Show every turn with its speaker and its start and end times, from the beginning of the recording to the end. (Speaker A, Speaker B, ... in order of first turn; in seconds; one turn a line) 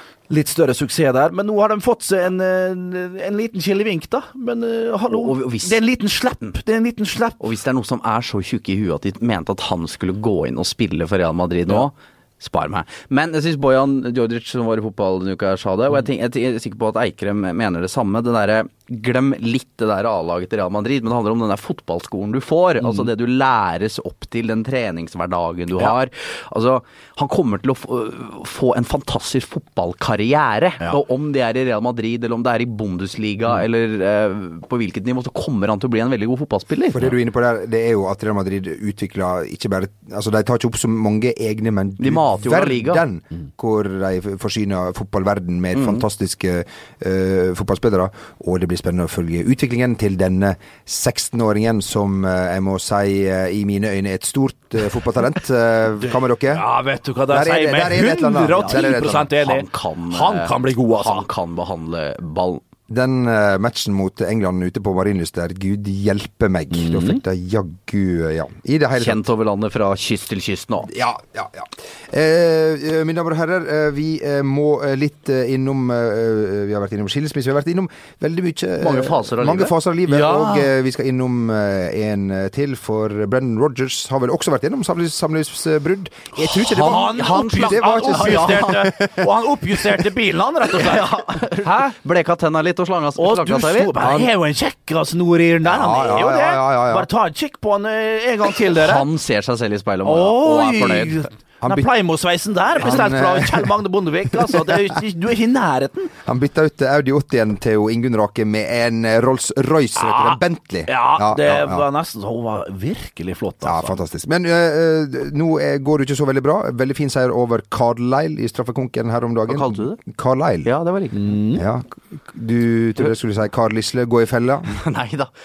Speaker A: 0.3-7.4
Speaker B: 5.1-5.8
Speaker B: 7.4-37.1
Speaker A: 22.8-23.1
Speaker C: 36.9-56.6
Speaker B: 42.0-43.0
Speaker B: 45.7-46.0
Speaker A: 56.0-61.3
Speaker C: 57.3-59.3
Speaker B: 58.6-62.6
Speaker C: 62.9-69.2
Speaker A: 66.7-67.2
Speaker B: 69.0-70.9
Speaker C: 70.9-89.3
Speaker B: 78.8-80.7
Speaker A: 86.4-91.7
Speaker B: 86.5-88.8
Speaker B: 90.8-93.9
Speaker A: 93.2-99.0
Speaker C: 94.0-94.3
Speaker C: 95.6-97.1
Speaker B: 98.8-101.2
Speaker A: 100.0-106.1
Speaker C: 101.6-101.9
Speaker C: 102.8-103.7
Speaker C: 104.3-104.8
Speaker C: 106.2-111.8
Speaker A: 109.9-114.0
Speaker C: 113.6-120.7
Speaker B: 119.5-120.0
Speaker B: 120.6-121.2
Speaker A: 121.1-121.6
Speaker C: 121.5-124.7
Speaker B: 124.7-125.3